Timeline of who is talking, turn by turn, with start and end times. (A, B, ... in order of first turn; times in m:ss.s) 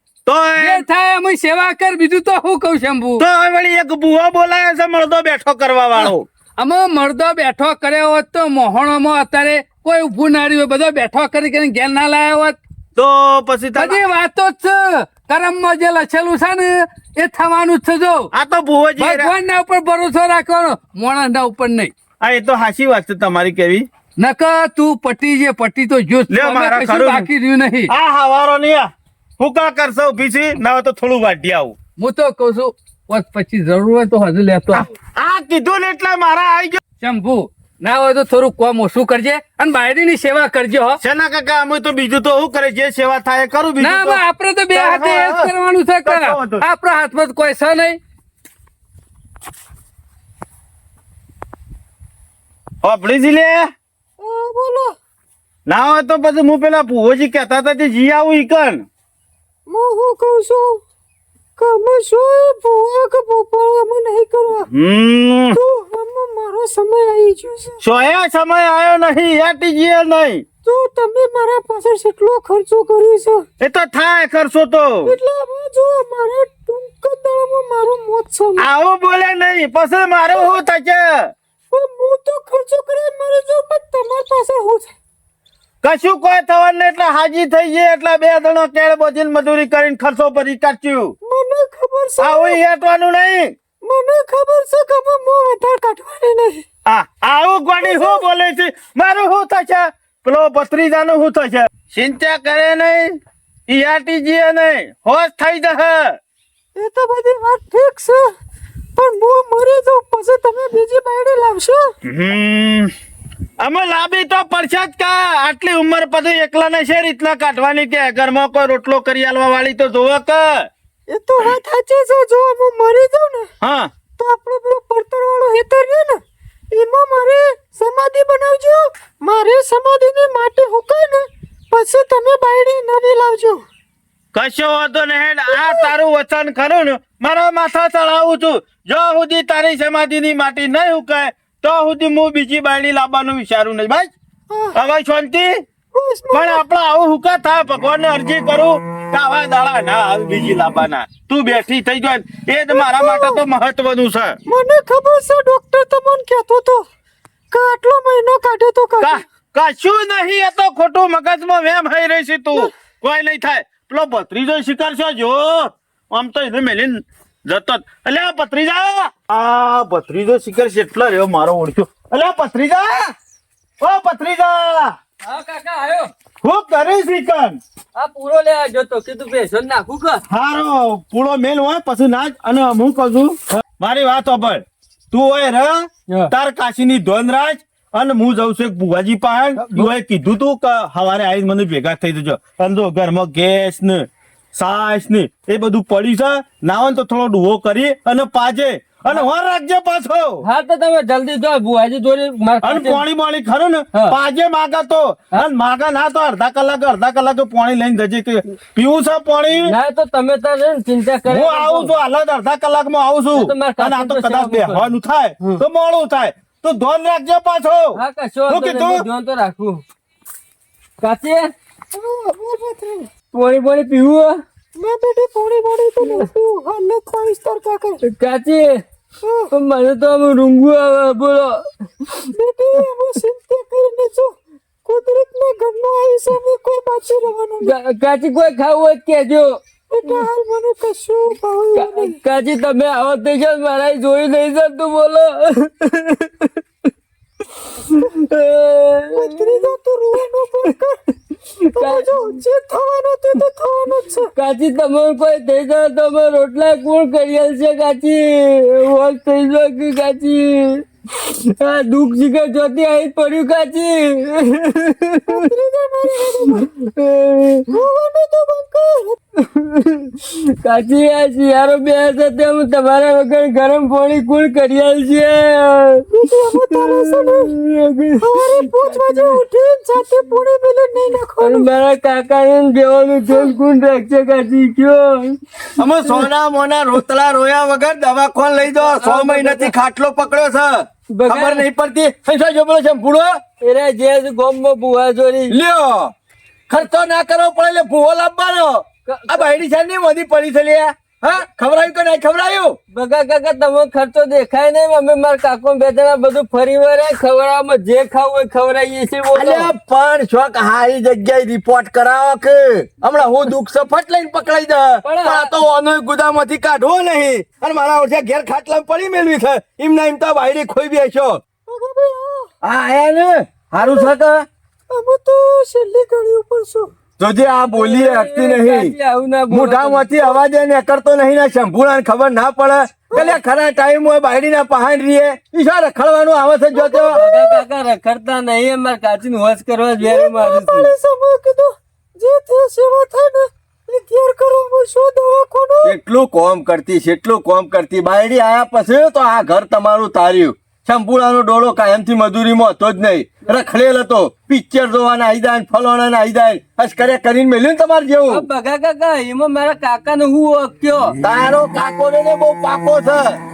0:00.3-0:00.9 A
0:00.6-0:03.3 B
0:03.2-0:06.3 A
0:06.0-0:12.6 B
0:13.0-0:14.0 A
0:13.8-0:18.3 B
0:18.3-0:19.3 A
0:19.0-0:21.9 B
0:22.2-0:23.9 A
0:24.2-0:27.9 B
0:26.3-0:27.3 A
0:27.9-0:31.8 A
0:32.0-0:34.9 B
0:34.7-0:36.8 A
0:37.0-0:41.0 B
0:41.0-0:44.2 A
0:43.8-0:48.0 B
0:44.7-0:45.5 A
0:46.0-0:46.7 A
0:52.8-0:53.7 A
0:54.2-0:55.0 C
0:55.7-0:58.8 A
0:59.7-1:00.8 C
1:01.6-1:04.7 C
1:04.7-1:05.6 A
1:05.5-1:07.8 C
1:07.8-1:10.4 A
1:10.6-1:13.4 C
1:13.6-1:15.2 A
1:15.1-1:18.7 C
1:18.6-1:21.3 A
1:21.7-1:24.9 C
1:25.8-1:31.1 A
1:31.2-1:32.6 C
1:32.2-1:33.5 A
1:33.8-1:36.6 C
1:36.9-1:46.2 A
1:37.8-1:38.2 C
1:46.8-1:48.3 C
1:49.0-1:51.9 C
1:52.0-1:52.9 A
1:53.6-2:00.7 A
2:01.1-2:03.5 C
2:03.6-2:03.9 A
2:04.2-2:06.2 C
2:06.7-2:13.6 C
2:14.3-2:24.1 A
2:15.5-2:15.9 C
2:24.5-2:24.8 C
2:24.7-2:25.6 A
2:25.9-2:26.6 C
2:26.3-2:34.4 A
2:32.7-2:33.4 C
2:34.5-2:36.8 C
2:37.5-2:39.2 C
2:39.0-2:53.1 A
2:53.8-2:55.0 A
2:55.2-2:56.1 D
2:56.4-2:57.6 A
2:58.0-3:00.2 D
3:00.3-3:20.4 A
3:20.4-3:23.0 D
3:22.6-3:29.8 A
3:23.9-3:24.2 D
3:29.6-3:32.0 D
3:31.3-3:39.0 A
3:33.4-3:34.9 D
3:38.0-3:39.8 D
3:41.0-3:41.5 D
3:41.9-3:43.1 C
3:43.3-3:44.4 D
3:44.8-3:48.0 C
3:48.0-3:48.8 D
3:49.2-3:49.5 C
3:49.5-3:52.1 D
3:52.3-3:57.8 C
3:57.6-4:00.3 D
3:59.9-4:02.2 C
4:01.8-4:06.6 D
4:07.6-4:09.7 D
4:09.2-4:11.0 C
4:11.5-4:12.3 D
4:11.8-4:14.3 C
4:14.4-4:25.5 D
4:25.3-4:26.7 C
4:26.2-4:27.8 D
4:27.7-4:29.2 C
4:29.4-4:39.4 D
4:36.1-4:37.5 C
4:38.2-4:41.7 C
4:41.4-4:46.2 D
4:45.8-4:53.4 E
4:48.9-4:49.7 D
4:51.1-4:51.6 D
4:53.6-4:55.6 D
4:55.5-4:56.1 E
4:56.7-5:02.8 E
4:59.1-4:59.5 D
5:02.9-5:09.7 D
5:09.3-5:21.4 E
5:15.0-5:15.6 D
5:21.7-5:22.5 C
5:22.6-5:24.5 E
5:23.8-5:24.1 C
5:24.9-5:26.9 C
5:27.2-5:29.0 E
5:27.7-5:30.4 D
5:29.5-5:37.2 E
5:36.8-5:37.6 C
5:37.0-5:40.9 D
5:40.0-5:46.0 C
5:45.8-5:58.4 E
5:58.3-6:01.2 D
6:01.2-6:03.4 E